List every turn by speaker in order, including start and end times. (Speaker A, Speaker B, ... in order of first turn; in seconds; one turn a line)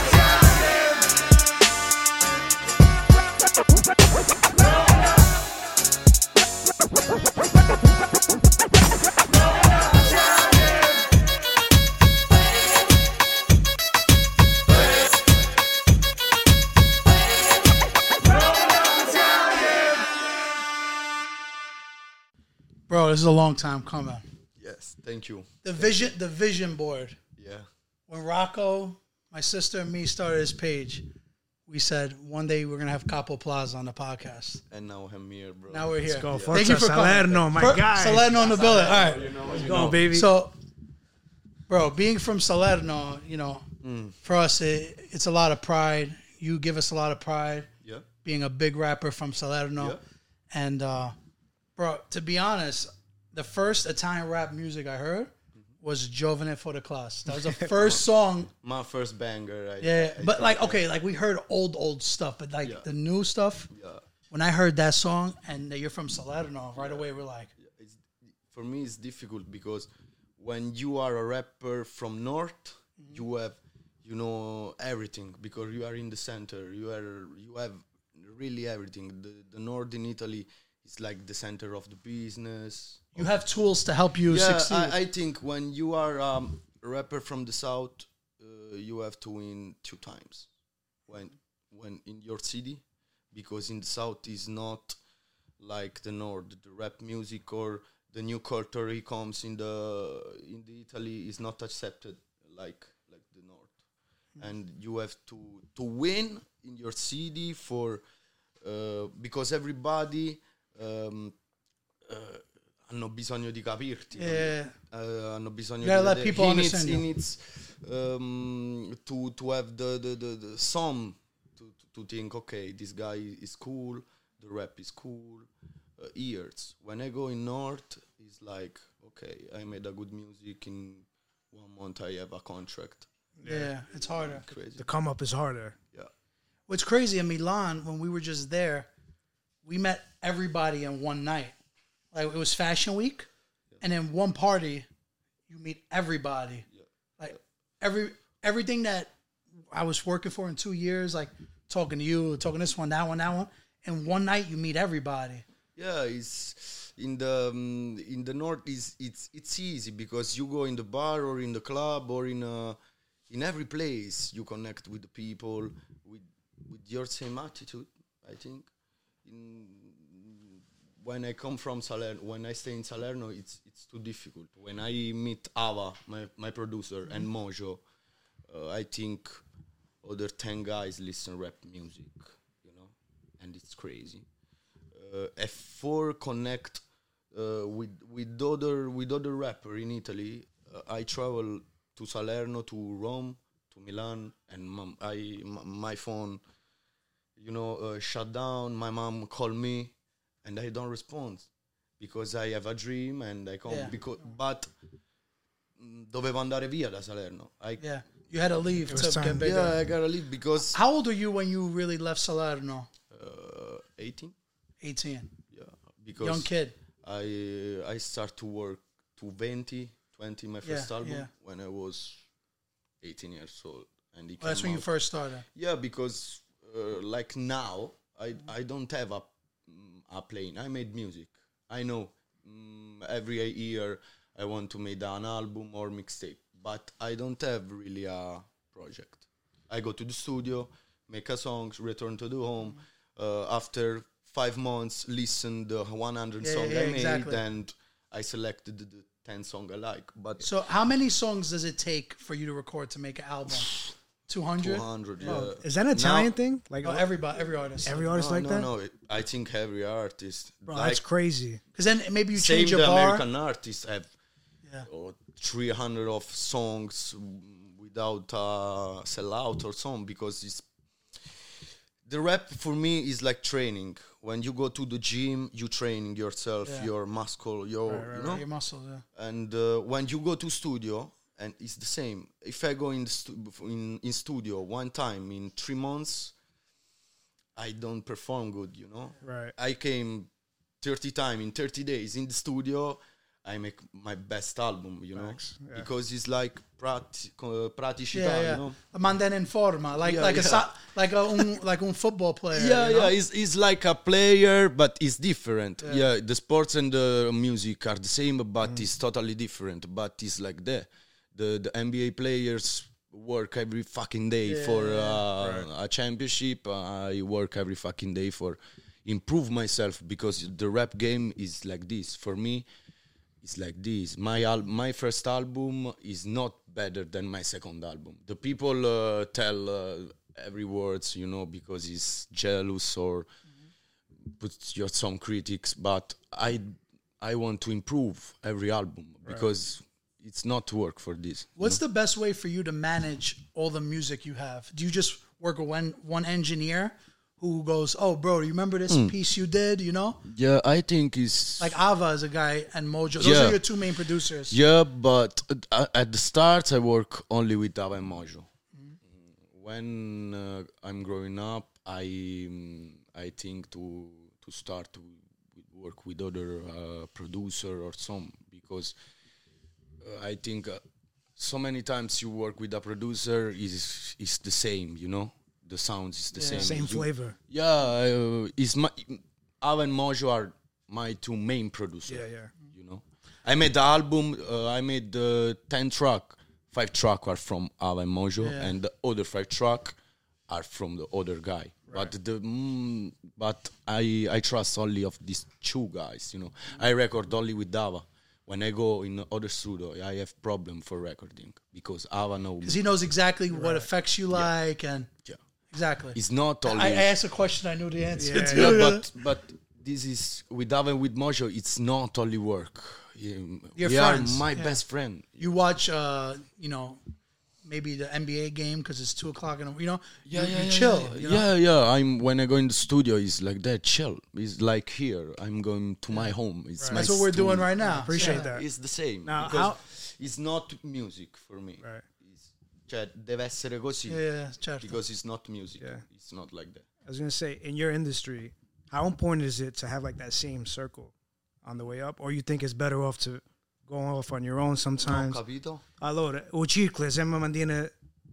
Speaker A: 22.9-24.2
Speaker B: 24.6-26.1
Speaker A: 25.6-27.2
Speaker B: 27.4-27.7
Speaker A: 28.1-31.1
Speaker A: 31.7-34.6
Speaker B: 34.7-36.7
Speaker A: 35.7-39.4
Speaker C: 36.1-38.4
Speaker B: 38.1-40.1
Speaker C: 39.4-40.3
Speaker A: 40.0-40.5
Speaker A: 41.7-43.7
Speaker B: 43.8-44.2
Speaker A: 44.2-47.7
Speaker A: 48.2-50.0
Speaker A: 50.5-51.1
Speaker A: 51.8-55.3
Speaker A: 55.8-58.5
Speaker B: 57.6-60.8
Speaker A: 59.8-63.7
Speaker B: 63.7-64.0
Speaker A: 64.3-67.5
Speaker B: 66.8-67.0
Speaker B: 67.6-83.3
Speaker A: 83.2-84.9
Speaker B: 84.3-90.5
Speaker B: 91.1-95.0
Speaker B: 95.6-103.7
Speaker B: 104.4-108.0
Speaker B: 108.6-111.3
Speaker B: 112.1-125.5
Speaker A: 114.2-114.7
Speaker A: 115.8-117.0
Speaker B: 126.0-133.1
Speaker C: 133.4-133.7
Speaker A: 133.4-134.5
Speaker B: 134.1-134.9
Speaker C: 134.8-135.8
Speaker A: 136.7-138.9
Speaker A: 139.7-141.6
Speaker A: 142.1-143.3
Speaker A: 143.8-144.9
Speaker A: 145.5-146.7
Speaker A: 147.2-149.1
Speaker A: 149.7-155.4
Speaker B: 155.8-162.8
Speaker B: 163.3-168.7
Speaker B: 169.2-177.8
Speaker B: 178.5-179.4
Speaker B: 180.0-184.3
Speaker B: 184.9-196.4
Speaker B: 197.4-201.5
Speaker B: 202.0-204.7
Speaker A: 203.7-203.9
Speaker B: 205.8-207.8
Speaker A: 207.8-209.8
Speaker C: 208.9-209.5
Speaker B: 209.4-210.8
Speaker A: 210.7-212.9
Speaker B: 213.1-214.3
Speaker A: 214.8-215.3
Speaker B: 215.5-216.5
Speaker A: 216.2-216.7
Speaker B: 217.0-222.2
Speaker A: 220.7-221.3
Speaker B: 223.0-224.9
Speaker A: 224.4-225.4
Speaker B: 225.5-250.5
Speaker A: 246.4-247.4
Speaker A: 250.4-255.5
Speaker B: 254.6-256.3
Speaker C: 255.3-257.1
Speaker A: 256.8-258.1
Speaker C: 257.9-258.7
Speaker B: 258.1-261.0
Speaker C: 260.7-261.6
Speaker A: 261.8-263.2
Speaker B: 262.3-264.1
Speaker B: 264.9-270.7
Speaker B: 272.1-278.4
Speaker A: 276.6-276.9
Speaker C: 277.9-278.4
Speaker A: 278.2-279.0
Speaker B: 279.1-286.3
Speaker B: 287.6-290.3
Speaker C: 289.2-289.5
Speaker B: 290.8-298.8
Speaker C: 295.2-295.9
Speaker A: 298.1-303.1
Speaker B: 300.0-300.7
Speaker B: 302.5-322.7
Speaker A: 305.8-306.1
Speaker A: 314.5-315.3
Speaker B: 323.4-333.3
Speaker B: 334.4-341.8
Speaker A: 341.6-350.2
Speaker B: 348.9-349.1
Speaker B: 350.2-351.8
Speaker A: 351.6-354.6
Speaker B: 353.2-353.6
Speaker B: 354.5-358.5
Speaker B: 359.5-368.9
Speaker B: 370.0-370.8
Speaker B: 371.4-390.0
Speaker A: 376.4-376.8
Speaker C: 376.5-377.4
Speaker C: 382.1-382.5
Speaker A: 388.4-388.8
Speaker B: 390.5-402.8
Speaker A: 402.6-405.1
Speaker C: 403.5-403.9
Speaker A: 405.7-409.1
Speaker B: 406.1-407.1
Speaker C: 408.2-408.8
Speaker B: 408.3-415.5
Speaker A: 413.8-414.8
Speaker A: 415.4-417.0
Speaker A: 417.6-421.4
Speaker B: 420.2-434.2
Speaker C: 426.8-427.1
Speaker A: 426.9-428.5
Speaker C: 427.8-428.7
Speaker C: 429.2-429.8
Speaker A: 434.1-435.0
Speaker B: 434.8-436.9
Speaker C: 437.1-441.1
Speaker C: 441.6-445.4
Speaker B: 445.0-445.8
Speaker C: 446.0-447.9